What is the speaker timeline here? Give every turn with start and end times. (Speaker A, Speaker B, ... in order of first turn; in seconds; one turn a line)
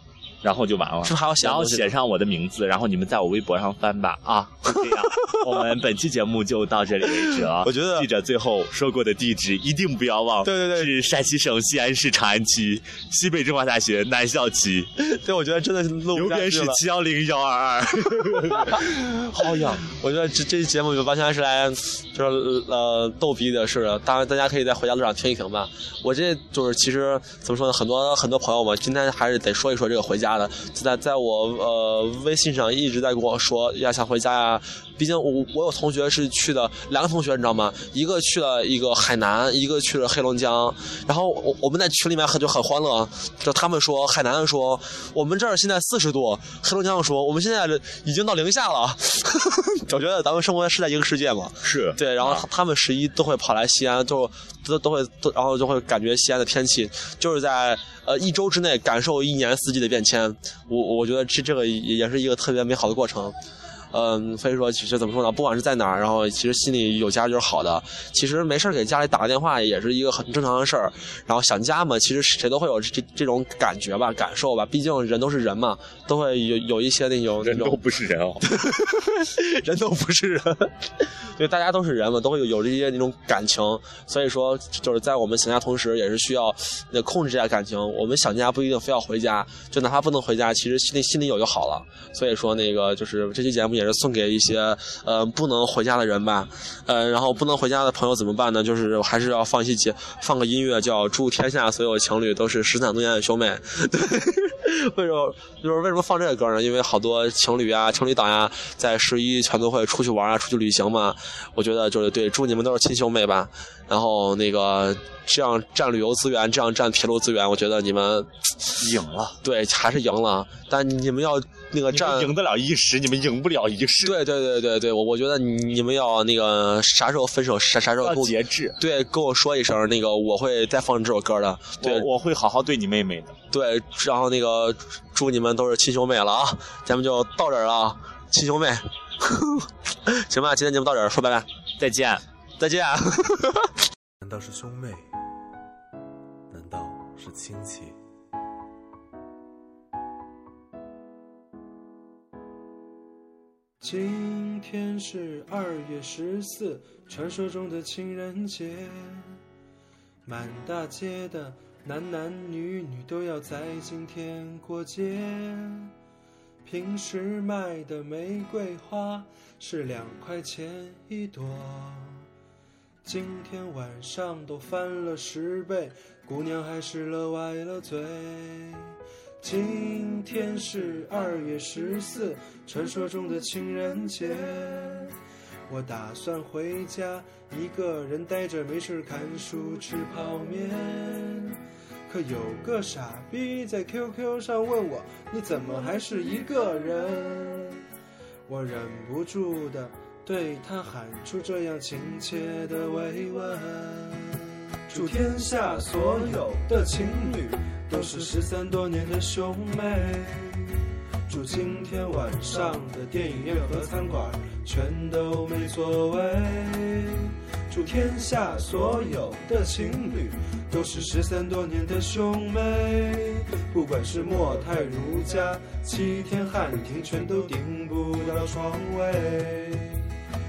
Speaker A: 0.4-14.9
Speaker B: 1.0-1.9
Speaker B: 7.6-8.1
Speaker B: 10.4-10.9
Speaker B: 15.0-16.8
Speaker A: 16.1-19.8
Speaker B: 18.7-63.4
Speaker A: 51.6-52.5
Speaker B: 63.9-77.8
Speaker A: 77.4-78.5
Speaker B: 78.4-118.8
Speaker A: 118.8-119.4
Speaker B: 119.4-122.3
Speaker A: 121.9-124.2
Speaker B: 124.0-132.1
Speaker A: 128.0-128.8
Speaker A: 131.8-133.3
Speaker B: 133.5-141.5
Speaker A: 141.8-142.2
Speaker B: 142.6-143.7
Speaker C: 144.2-145.1
Speaker C: 146.5-148.0
Speaker D: 153.8-159.4
Speaker D: 160.3-165.9
Speaker D: 166.7-172.3
Speaker D: 173.0-185.2
Speaker D: 185.7-197.9
Speaker D: 198.5-230.1